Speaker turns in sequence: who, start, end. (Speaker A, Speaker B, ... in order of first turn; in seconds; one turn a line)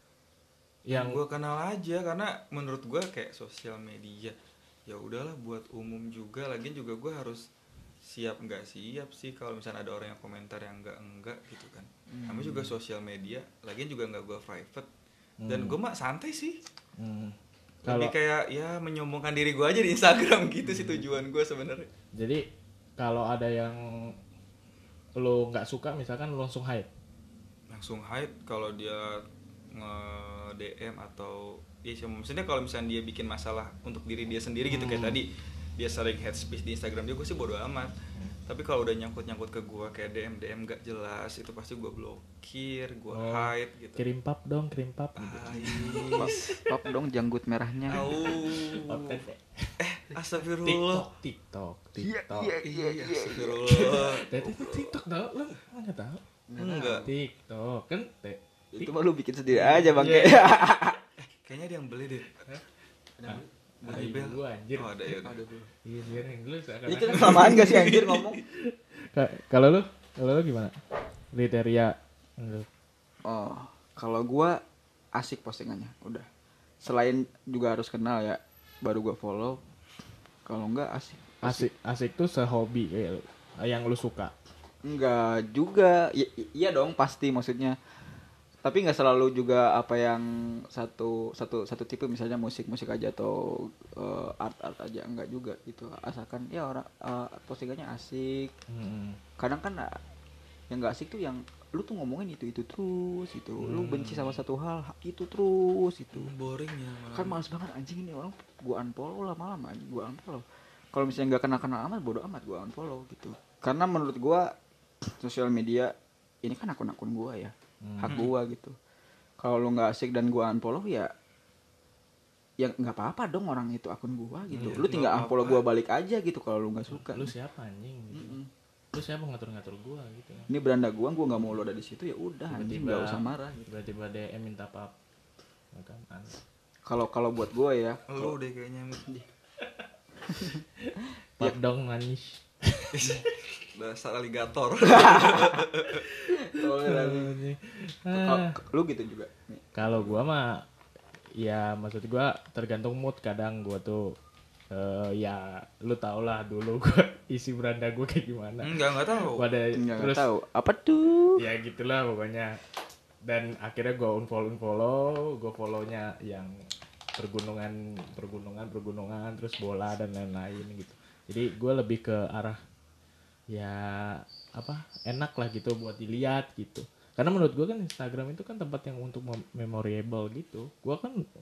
Speaker A: 0.9-1.2
Speaker B: 0.9-4.3
Speaker B: 4.9-7.5
Speaker B: 8.0-14.9
Speaker C: 12.1-12.7
Speaker A: 15.4-15.8
Speaker B: 15.5-16.6
Speaker A: 17.0-18.1
Speaker B: 17.9-21.9
Speaker A: 20.7-21.0
Speaker A: 22.2-22.5
Speaker A: 23.0-24.1
Speaker A: 25.2-26.9
Speaker B: 27.7-29.2
Speaker B: 29.7-37.9
Speaker A: 34.7-35.2
Speaker B: 38.5-44.0
Speaker A: 43.1-46.4
Speaker B: 45.2-46.6
Speaker C: 45.7-48.1
Speaker B: 47.9-49.2
Speaker A: 48.1-49.7
Speaker B: 49.8-51.0
Speaker A: 50.6-52.6
Speaker C: 52.0-54.9
Speaker B: 52.6-54.3
Speaker A: 53.7-56.2
Speaker C: 56.5-57.1
Speaker B: 56.6-57.1
Speaker A: 57.0-58.9
Speaker C: 58.7-61.0
Speaker A: 59.5-60.5
Speaker B: 61.3-62.5
Speaker C: 63.2-63.5
Speaker A: 63.3-64.9
Speaker B: 63.8-65.3
Speaker C: 65.2-65.7
Speaker A: 65.8-67.7
Speaker C: 66.9-68.4
Speaker B: 67.1-68.4
Speaker A: 68.7-70.8
Speaker A: 71.3-72.7
Speaker C: 73.3-74.6
Speaker C: 75.2-76.3
Speaker C: 76.8-79.6
Speaker C: 80.5-81.7
Speaker A: 81.4-84.3
Speaker C: 84.8-87.8
Speaker C: 88.6-98.5
Speaker A: 98.7-99.2
Speaker C: 99.4-100.0
Speaker C: 100.7-106.3
Speaker A: 103.6-104.4
Speaker B: 106.1-107.4
Speaker C: 107.1-114.5
Speaker C: 115.2-115.9
Speaker C: 116.4-118.7
Speaker A: 117.8-118.2
Speaker C: 119.4-121.1
Speaker C: 122.6-127.3
Speaker A: 124.5-124.8
Speaker B: 124.6-125.7
Speaker A: 126.9-128.4
Speaker C: 128.1-128.5
Speaker A: 128.9-130.5
Speaker C: 130.5-133.7
Speaker A: 132.5-134.9
Speaker A: 135.7-136.4
Speaker C: 136.9-138.4
Speaker B: 138.1-139.1
Speaker C: 140.3-140.6
Speaker A: 140.8-143.3
Speaker B: 142.9-146.1
Speaker C: 145.0-145.6
Speaker C: 146.3-147.4
Speaker A: 146.8-148.5
Speaker C: 148.1-150.2
Speaker A: 149.8-150.6
Speaker A: 151.4-154.1
Speaker A: 154.7-160.3
Speaker B: 158.6-159.5
Speaker C: 159.8-161.4
Speaker A: 161.4-162.6
Speaker A: 163.2-166.5
Speaker A: 167.2-172.6
Speaker A: 173.5-181.2